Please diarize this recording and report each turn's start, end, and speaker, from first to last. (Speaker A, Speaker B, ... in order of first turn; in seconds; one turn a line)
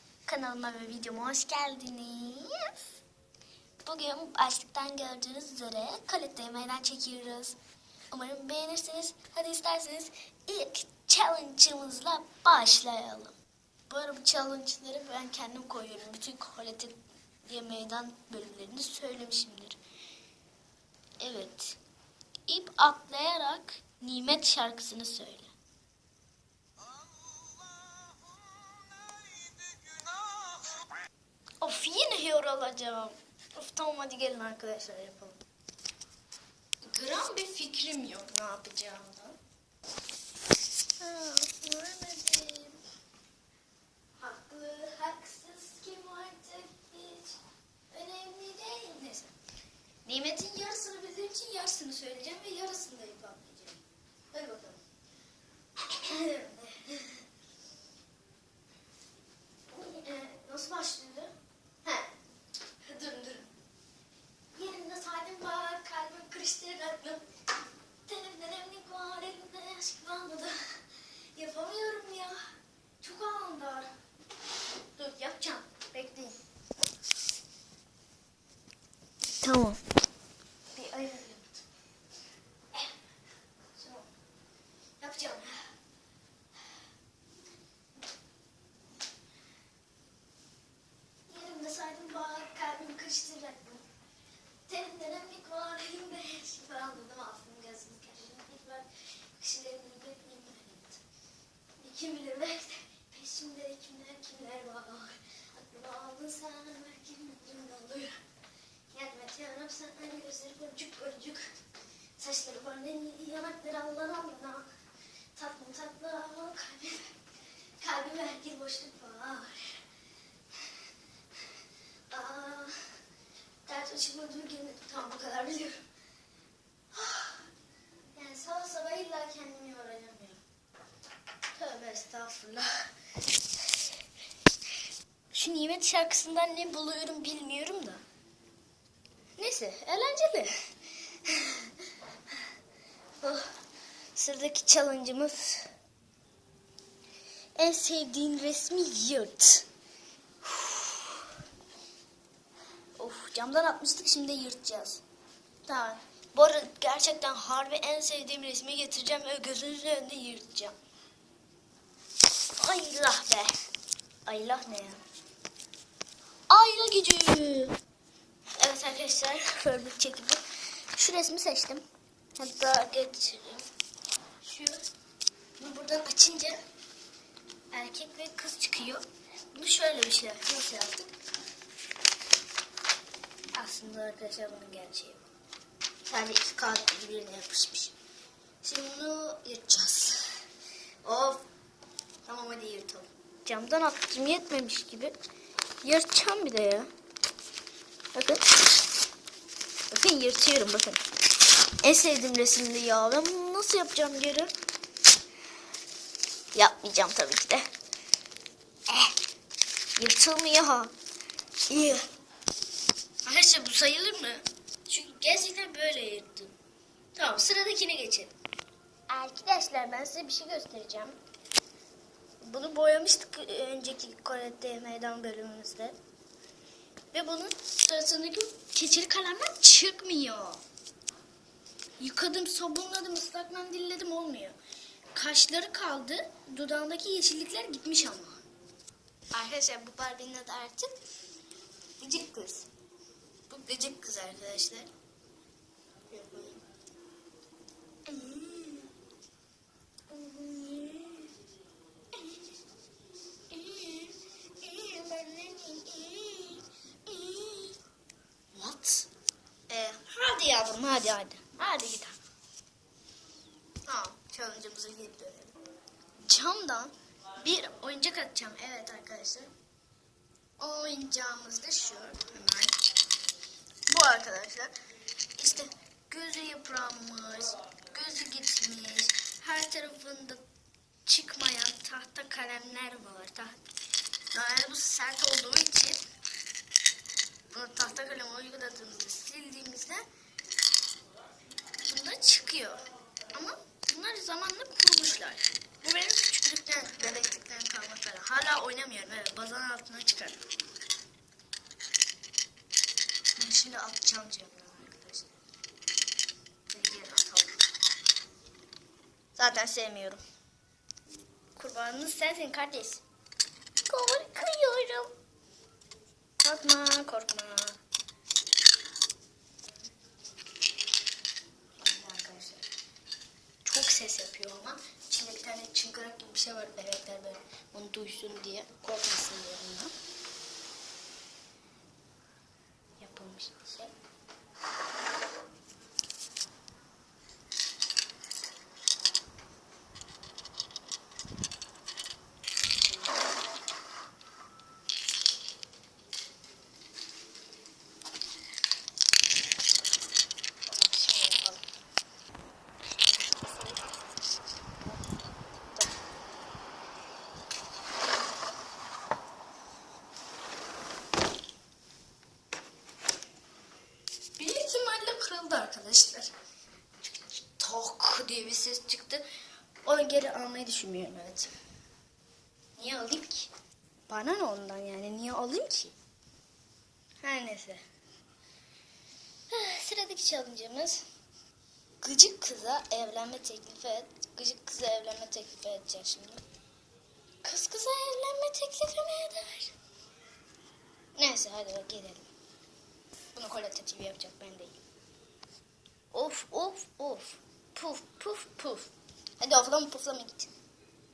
Speaker A: 0.2-3.0
Speaker A: 3.8-7.6
Speaker A: 8.1-13.3
Speaker A: 13.9-19.8
Speaker A: 21.2-21.8
Speaker A: 22.5-25.5
Speaker A: 31.6-35.4
Speaker A: 36.9-39.4
Speaker A: 41.0-42.8
Speaker A: 44.2-49.3
Speaker A: 50.0-53.8
Speaker A: 54.3-54.8
Speaker A: 55.8-57.2
Speaker A: 59.7-62.2
Speaker A: 62.8-63.5
Speaker A: 64.5-67.2
Speaker A: 68.1-72.4
Speaker A: 73.0-73.9
Speaker A: 75.0-76.4
Speaker A: 79.4-79.8
Speaker A: 80.7-81.7
Speaker A: 83.8-84.1
Speaker A: 85.0-85.7
Speaker A: 91.3-93.9
Speaker A: 94.7-101.0
Speaker A: 101.8-108.2
Speaker A: 108.9-111.5
Speaker A: 112.2-114.7
Speaker A: 115.3-117.1
Speaker A: 117.8-119.8
Speaker A: 122.1-123.0
Speaker A: 123.7-125.8
Speaker A: 126.9-127.5
Speaker A: 128.2-130.4
Speaker A: 131.5-132.9
Speaker A: 135.3-138.0
Speaker A: 139.4-142.4
Speaker A: 143.2-143.5
Speaker A: 144.2-145.7
Speaker A: 147.6-149.7
Speaker A: 150.4-151.3
Speaker A: 153.0-155.0
Speaker A: 155.7-160.8
Speaker A: 162.6-163.5
Speaker A: 164.3-165.0
Speaker A: 166.5-167.8
Speaker A: 168.6-170.4
Speaker A: 170.9-171.8
Speaker A: 172.4-173.7
Speaker A: 174.4-174.8
Speaker A: 175.6-176.6
Speaker A: 177.7-181.1
Speaker A: 183.5-185.3
Speaker A: 186.1-187.9
Speaker A: 188.6-190.4
Speaker A: 191.0-191.4
Speaker A: 192.2-195.2
Speaker A: 195.8-196.9
Speaker A: 198.1-198.7
Speaker A: 199.9-201.0
Speaker A: 201.8-204.5
Speaker A: 206.5-207.7
Speaker A: 208.9-209.2
Speaker A: 210.0-210.9
Speaker A: 211.7-212.1
Speaker A: 213.2-216.6
Speaker A: 217.2-218.3
Speaker A: 219.1-221.2
Speaker A: 222.4-226.0
Speaker A: 227.1-230.6
Speaker A: 232.0-234.6
Speaker A: 235.1-238.4
Speaker A: 239.3-241.0
Speaker A: 242.0-242.7
Speaker A: 243.5-244.9
Speaker A: 246.1-246.6
Speaker A: 248.1-248.9
Speaker A: 250.1-251.3
Speaker A: 252.1-252.5
Speaker A: 253.5-257.8
Speaker A: 258.5-259.1
Speaker A: 259.7-262.2
Speaker A: 263.9-265.6
Speaker A: 266.2-269.5
Speaker A: 270.6-272.7
Speaker A: 273.9-274.7
Speaker A: 275.4-280.4
Speaker A: 281.1-283.6
Speaker A: 284.3-286.0
Speaker A: 287.5-290.1
Speaker A: 291.8-300.4
Speaker A: 303.4-305.4
Speaker A: 306.7-307.6
Speaker A: 309.4-310.2
Speaker A: 311.6-313.0
Speaker A: 313.9-315.1
Speaker A: 316.4-317.8
Speaker A: 321.8-322.7
Speaker A: 323.6-329.9
Speaker A: 333.0-333.9
Speaker A: 350.7-351.6
Speaker A: 353.0-353.8
Speaker A: 355.7-356.0
Speaker A: 364.4-366.3
Speaker A: 367.0-369.2
Speaker A: 369.8-371.5
Speaker A: 372.8-373.5
Speaker A: 374.1-375.9
Speaker A: 377.2-377.8
Speaker A: 379.5-381.0
Speaker A: 382.0-386.4
Speaker A: 387.4-389.8
Speaker A: 391.1-392.3
Speaker A: 393.3-394.8
Speaker A: 396.1-400.5